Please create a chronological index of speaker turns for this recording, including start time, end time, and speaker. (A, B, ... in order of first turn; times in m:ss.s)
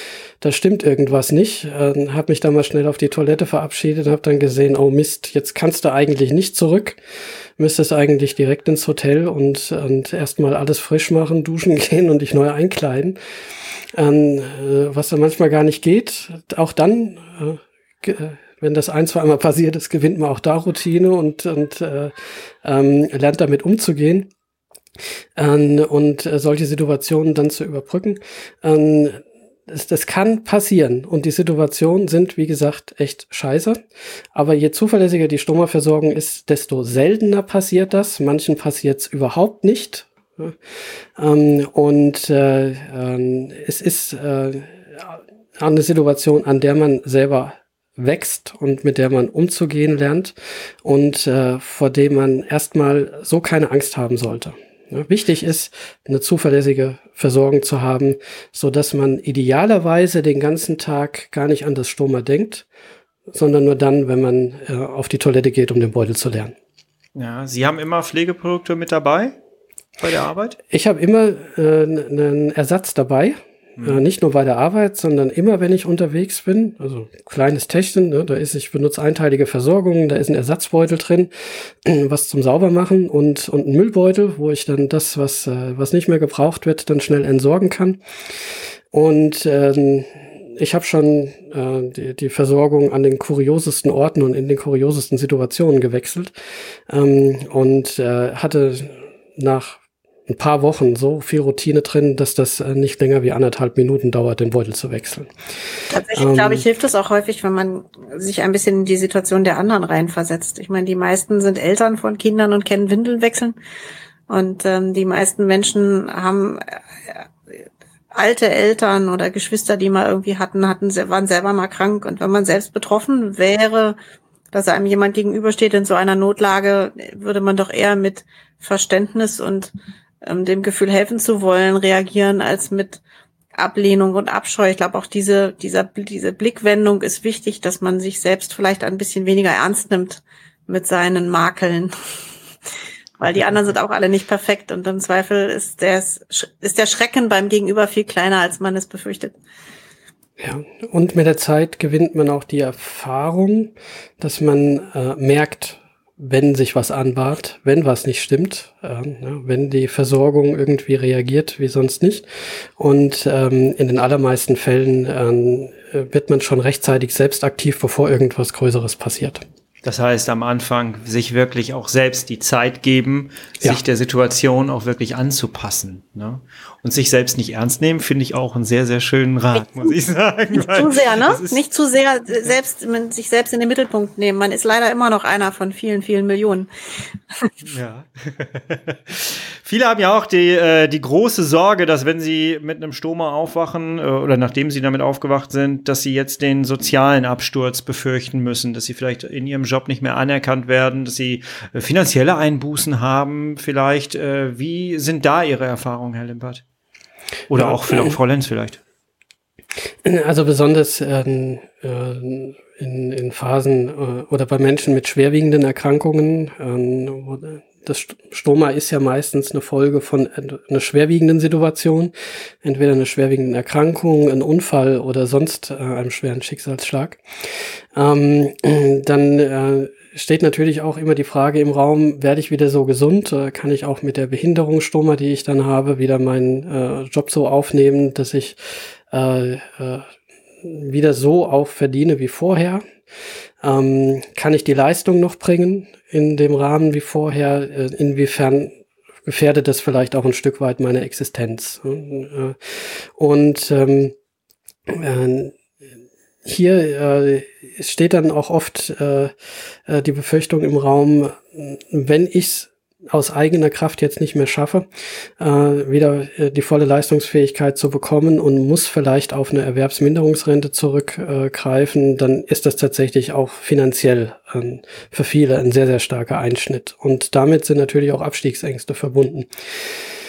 0:00.4-0:07.0 A
0:07.6-0:13.2 A
0:13.9-0:24.3 A
0:25.4-0:33.8 A
0:34.3-0:40.6 A
0:41.2-1:02.6 A
1:03.3-1:06.5 A
1:07.2-1:09.3 B
1:10.0-1:10.6 B
1:10.7-1:28.0 A
1:28.9-1:36.3 A
1:36.9-1:45.3 A
1:45.9-1:53.6 C
1:46.2-1:46.6 A
1:54.3-1:57.2 C
1:58.1-2:04.0 C
2:04.5-2:13.0 C
2:13.5-2:21.9 C
2:23.2-2:29.4 C
2:30.4-2:42.3 A
2:42.8-2:49.4 A
2:49.8-3:01.6 B
2:59.6-2:59.9 C
3:00.5-3:06.7 C
3:07.6-3:26.6 B
3:27.5-3:28.8 B
3:27.6-3:28.2 A
3:30.0-3:42.1 A
3:42.6-4:00.1 A
4:00.6-4:02.8 A
4:03.6-4:14.1 A
4:14.9-4:15.6 A
4:16.4-4:19.3 A
4:19.9-4:24.9 A
4:25.4-4:40.1 A